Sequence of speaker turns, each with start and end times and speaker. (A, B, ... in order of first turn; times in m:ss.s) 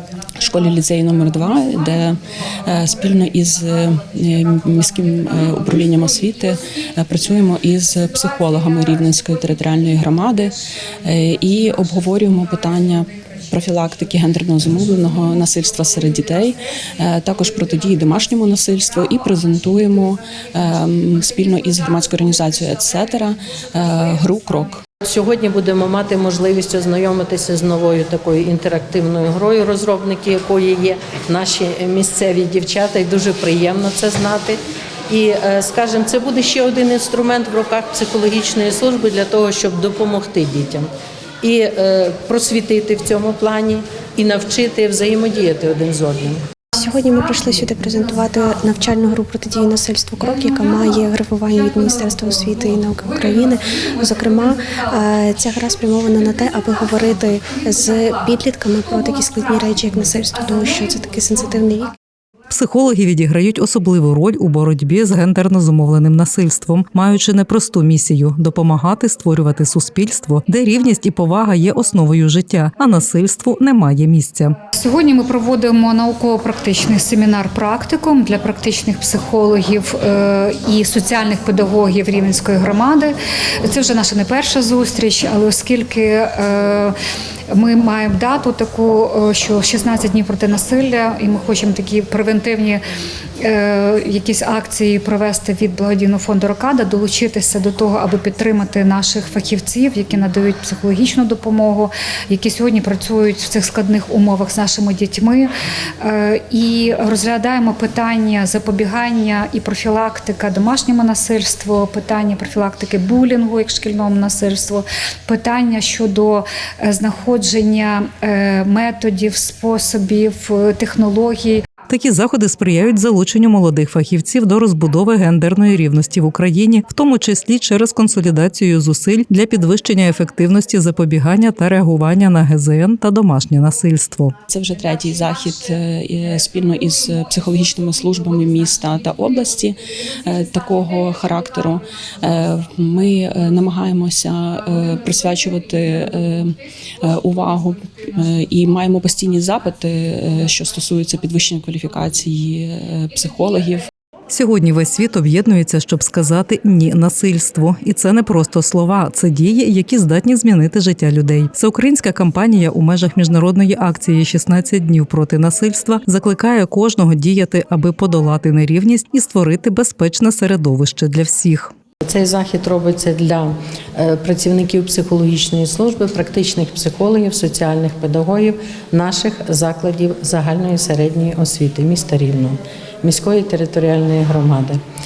0:00.4-0:10.5 A
0:11.0-0:24.8 A
0:25.0-0:40.9 B
0:41.4-0:46.4 B
0:46.8-1:01.9 C
1:02.5-1:14.5 D
1:14.7-1:26.9 E
1:27.5-1:32.8 E
1:33.4-1:45.5 E
1:46.0-2:01.6 E
2:01.9-2:14.3 D
2:14.5-2:33.9 A
2:34.3-2:51.7 D
2:52.0-3:04.8 B